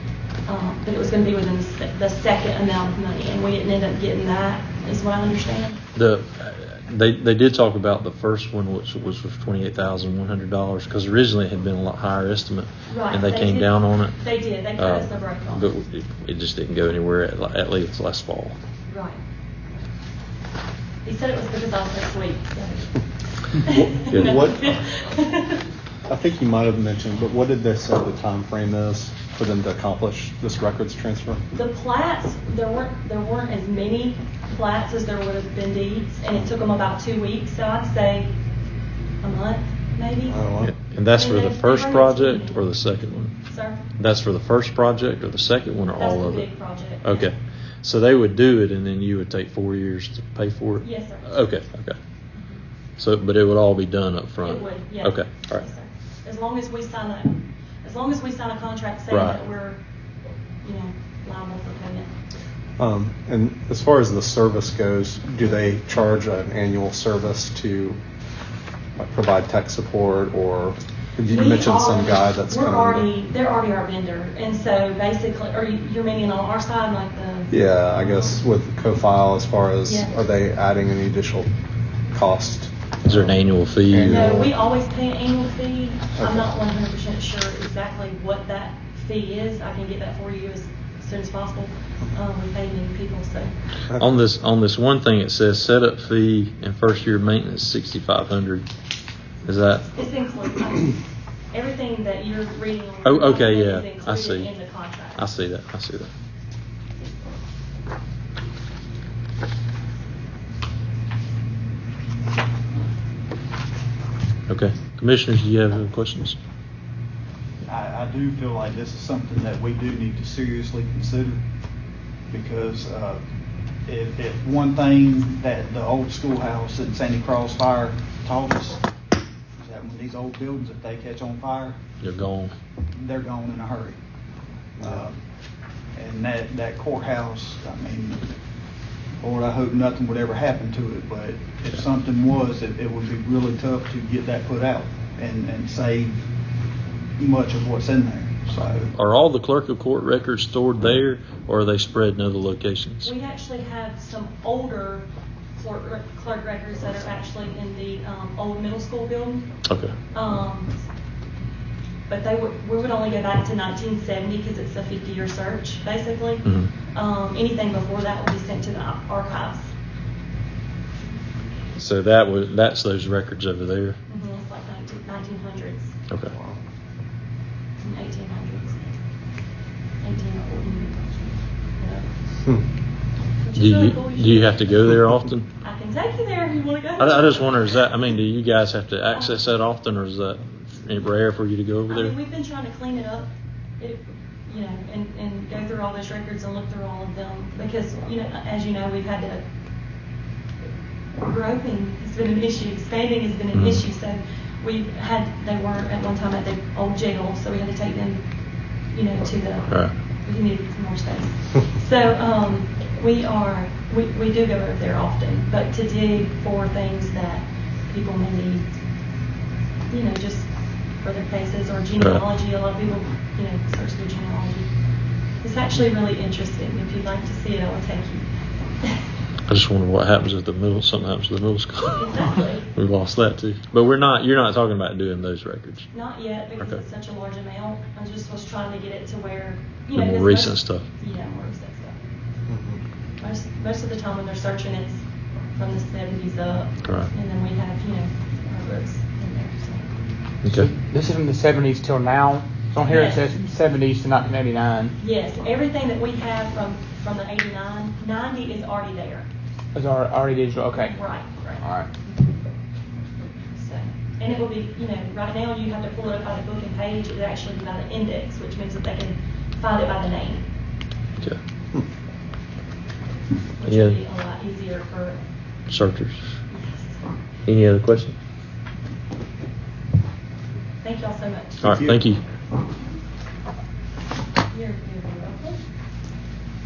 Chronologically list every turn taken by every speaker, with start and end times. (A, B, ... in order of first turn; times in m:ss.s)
0:00.4-0:05.8 A
0:05.9-0:18.6 B
0:12.9-0:15.7 A
0:18.9-0:19.2 A
0:21.0-0:25.6 A
0:23.7-0:24.8 C
0:24.1-0:24.4 B
0:26.1-0:31.4 C
0:31.5-0:38.3 A
0:39.2-0:40.4 A
0:40.3-0:40.7 C
0:40.6-0:43.4 B
0:41.2-0:42.6 A
0:43.4-0:43.8 A
0:43.9-0:52.0 B
0:45.9-0:47.3 A
0:50.8-0:51.5 A
0:52.3-0:52.6 A
0:53.0-0:55.6 B
0:54.4-0:59.8 A
0:59.1-0:59.4 B
1:00.6-1:02.1 A
1:02.8-1:08.0 C
1:09.0-1:13.0 C
1:11.3-1:18.4 A
1:17.5-1:21.5 C
1:19.8-1:20.1 A
1:22.1-1:23.3 C
1:23.0-1:24.4 B
1:23.8-1:24.5 C
1:24.0-1:33.5 A
1:26.2-1:26.4 C
1:34.0-1:38.7 B
1:39.4-1:39.9 B
1:39.9-1:41.0 A
1:41.5-1:45.2 A
1:43.0-1:46.1 B
1:54.5-1:56.4 B
1:57.6-2:01.4 D
2:02.3-2:03.2 D
2:03.8-2:08.8 D
2:09.6-2:11.8 D
2:12.0-2:12.5 B
2:12.9-2:14.0 D
2:14.8-2:15.0 C
2:14.8-2:15.2 D
2:15.9-2:18.2 D
2:19.2-2:26.1 D
2:27.2-2:28.9 D
2:28.9-2:33.1 B
2:33.0-2:39.5 A
2:39.6-2:39.9 B
2:40.1-2:40.8 A
2:42.1-2:49.7 A
2:51.7-2:54.0 B
2:54.1-2:56.5 A
2:57.8-2:59.0 A
3:00.0-3:02.1 A
3:03.4-3:04.7 A
3:03.5-3:05.5 B
3:05.6-3:07.8 A
3:07.0-3:12.1 B
3:11.9-3:19.4 A
3:21.2-3:38.7 A
3:23.5-3:23.8 B
3:29.7-3:29.9 B
3:39.9-3:48.2 A
3:42.0-3:42.2 B
3:49.5-3:55.9 B
3:51.9-3:52.7 A
3:55.9-4:02.0 A
3:59.9-4:00.8 B
4:02.5-4:02.8 C
4:03.2-4:09.9 A
4:06.8-4:07.1 B
4:10.4-4:10.7 B
4:10.5-4:14.9 E
4:12.8-4:13.2 A
4:15.0-4:19.3 A
4:19.7-4:21.0 E
4:20.8-4:21.8 A
4:23.5-4:30.4 A
4:33.6-4:35.2 A
4:33.6-4:34.0 B
4:35.7-4:36.4 B
4:36.5-4:37.0 A
4:37.4-4:38.2 B
4:40.8-4:41.6 A
4:41.6-4:42.2 B
4:41.6-4:42.0 D
4:44.5-4:45.6 A